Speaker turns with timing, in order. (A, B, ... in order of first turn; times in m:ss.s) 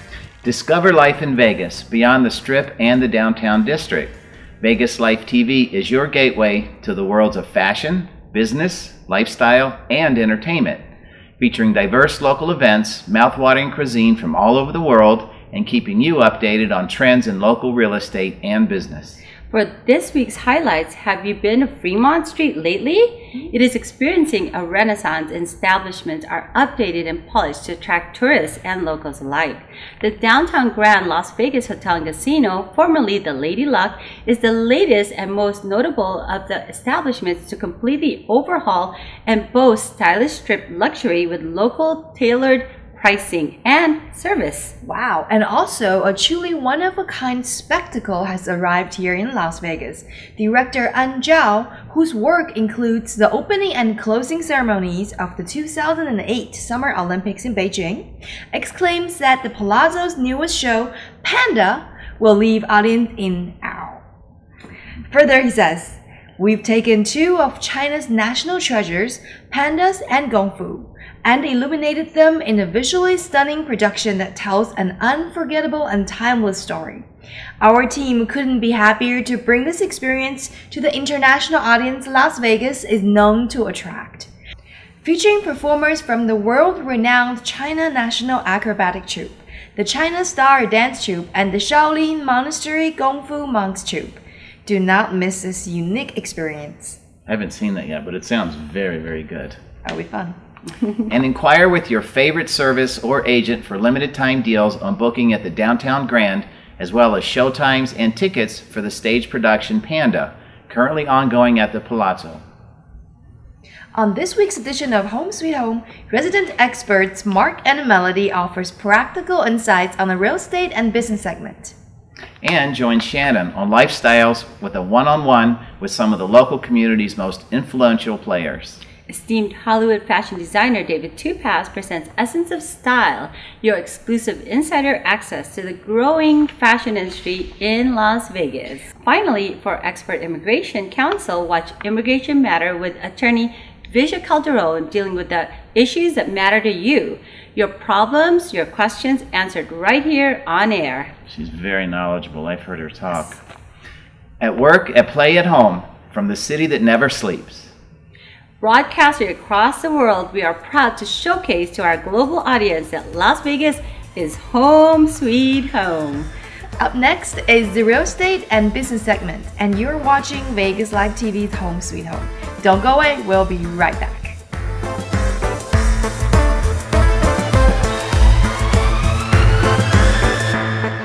0:00.4-0:10.8 A
0:11.4-0:19.2 A
0:19.5-0:44.8 B
0:44.8-1:04.0 C
1:05.1-1:17.1 C
1:17.6-1:24.3 C
1:25.0-1:37.0 C
1:37.3-1:39.6 A
1:39.8-1:40.4 C
1:41.1-1:52.4 A
1:53.9-2:01.8 C
2:02.4-2:08.8 A
2:09.1-2:31.1 B
2:31.3-2:33.4 A
2:34.4-2:37.7 A
2:38.6-2:46.3 B
2:46.8-2:54.4 C